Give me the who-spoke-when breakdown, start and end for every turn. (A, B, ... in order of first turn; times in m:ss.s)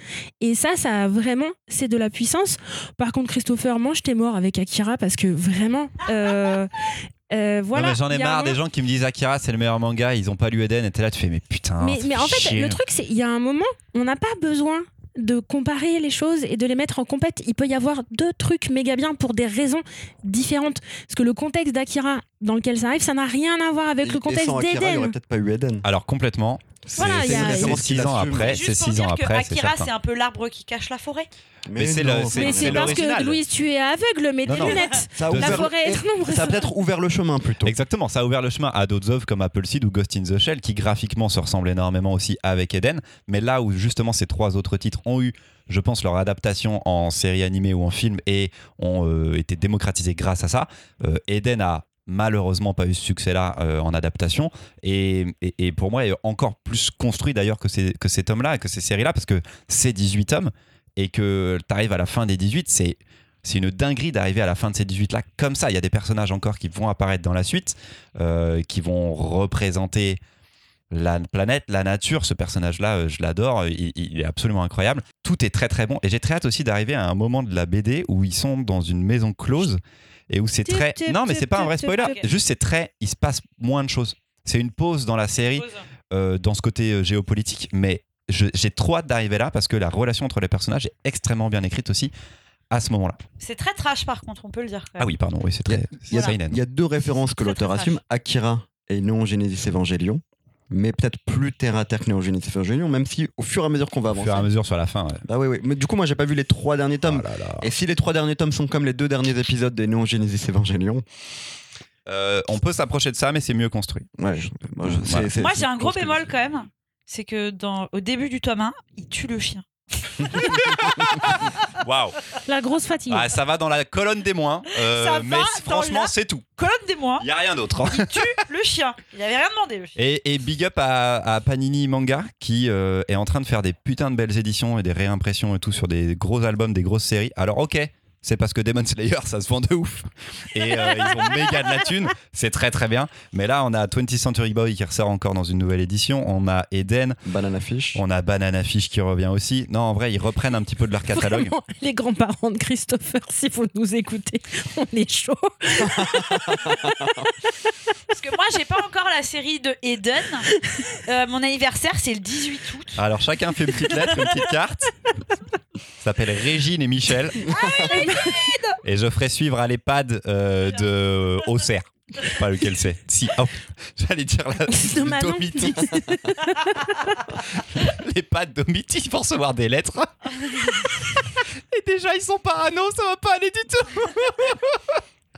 0:00.4-0:08.6 A
0:07.7-0:12.8 B
0:11.8-0:25.2 A
0:24.0-0:25.8 C
0:25.8-0:29.9 B
0:26.8-0:28.6 C
0:26.9-0:27.8 A
0:28.4-0:31.3 D
0:31.7-0:33.0 C
0:31.8-0:33.4 B
0:32.3-0:36.7 A
0:34.5-0:35.7 B
0:34.5-0:35.0 D
0:35.1-0:37.8 C
0:37.6-1:10.2 B
1:10.9-1:32.1 B
1:20.6-1:22.2 A
1:22.0-1:22.3 D
1:25.6-1:25.9 D
1:32.7-1:33.2 B
1:33.4-1:35.1 D
1:35.0-1:36.6 B
1:35.7-1:44.4 C
1:37.2-1:37.9 D
1:44.1-1:45.2 B
1:45.3-1:51.0 C
1:47.0-1:47.7 B
1:52.1-1:54.1 B
1:54.2-1:56.3 C
1:54.8-1:55.3 B
1:55.4-2:01.3 D
2:00.6-2:02.2 B
2:02.4-2:03.3 A
2:03.1-2:06.4 B
2:04.8-2:07.3 D
2:07.2-2:08.3 B
2:07.9-2:09.9 D
2:10.0-2:27.2 B
2:27.3-2:28.0 C
2:27.9-2:31.5 B
2:31.1-2:37.5 A
2:35.8-2:37.2 C
2:38.1-2:43.0 D
2:43.0-2:45.0 B
2:43.8-2:44.3 D
2:46.0-2:47.6 B
2:47.5-2:47.9 C
2:47.5-2:48.6 D
2:47.6-2:48.8 A
2:48.8-2:56.1 B
2:50.7-2:51.4 D
2:54.7-2:57.0 A
2:57.6-3:05.0 B